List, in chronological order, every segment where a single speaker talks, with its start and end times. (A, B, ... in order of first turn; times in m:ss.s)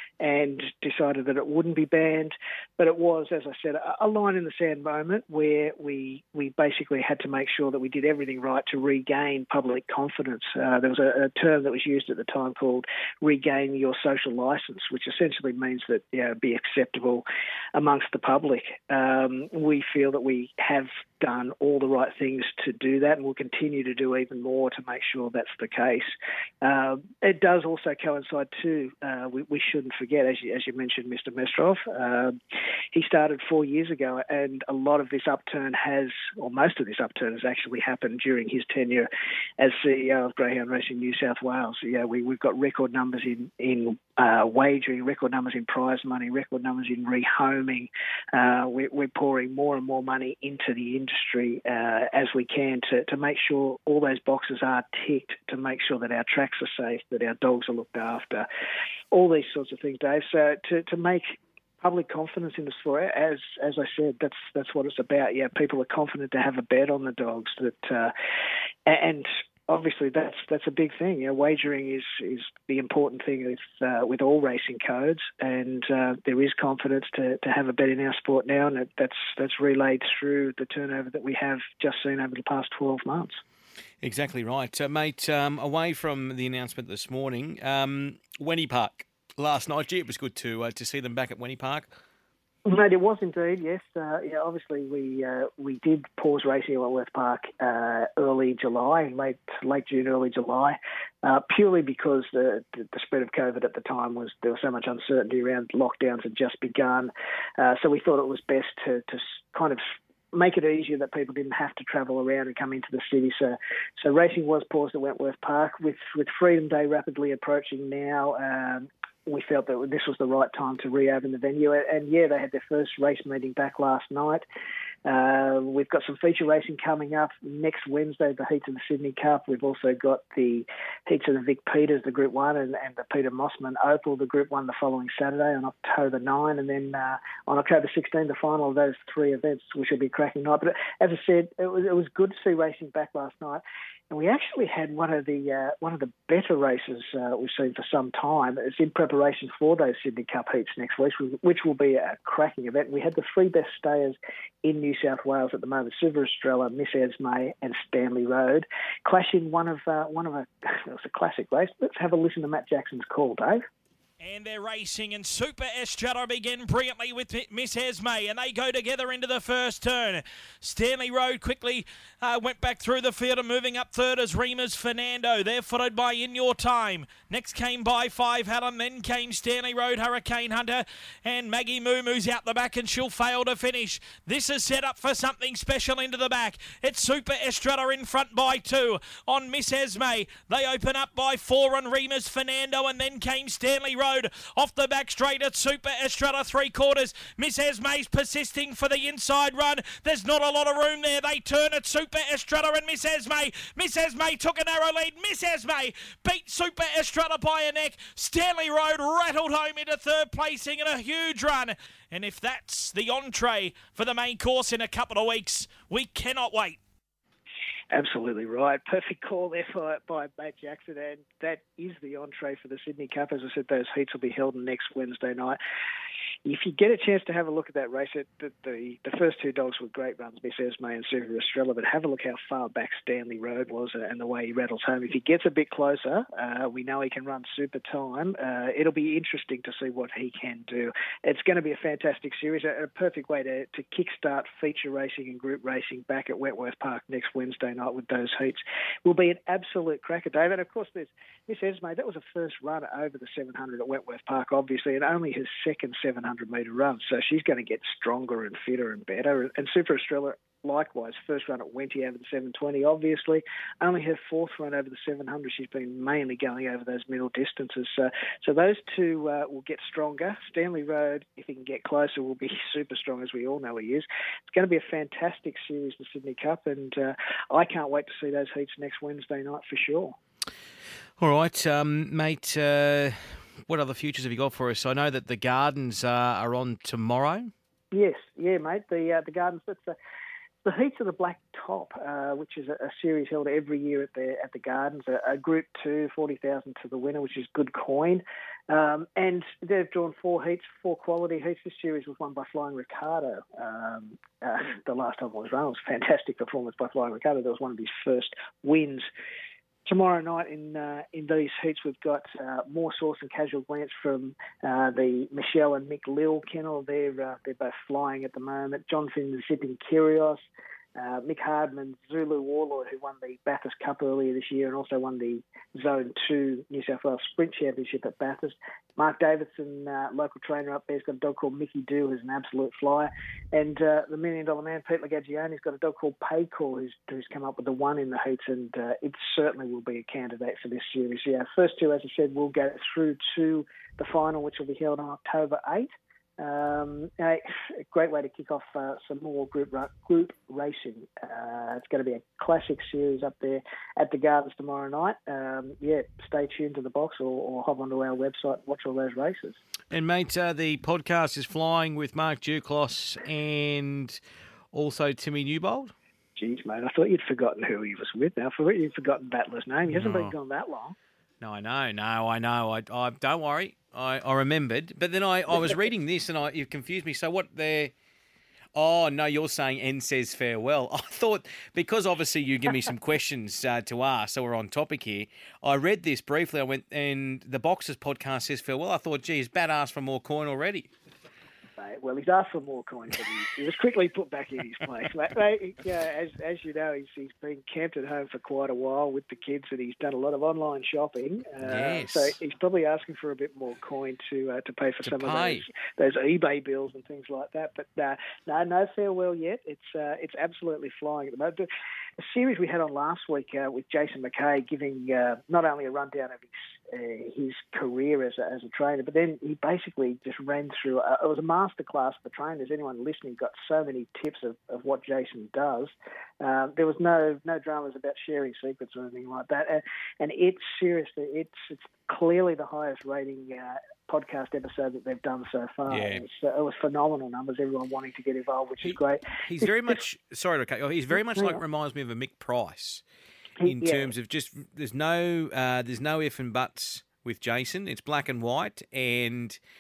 0:00.2-0:26.1 A
0:26.6-0:32.4 A
0:32.9-0:58.4 A
0:59.1-1:08.1 A
1:08.9-1:23.4 A
1:24.0-1:31.9 B
1:32.6-1:49.8 A
1:50.3-2:04.4 A
2:05.0-2:43.6 A
2:44.2-3:36.8 C
3:37.9-3:45.6 A
3:46.4-4:40.2 A
4:41.2-4:47.5 B
4:47.9-4:50.0 A
4:50.6-5:09.1 A
5:09.8-5:20.4 A
5:21.0-5:59.6 A
5:59.9-6:04.2 B
6:04.7-6:05.9 B
6:06.4-6:11.0 A
6:09.9-6:10.3 B
6:11.4-6:17.9 B
6:18.8-6:30.9 B
6:31.8-6:51.7 A
6:41.6-6:42.4 B
6:45.0-6:45.6 B
6:52.2-7:19.2 A
7:15.9-7:16.2 B
7:18.8-7:23.0 B
7:23.6-7:24.1 A
7:23.6-7:29.6 B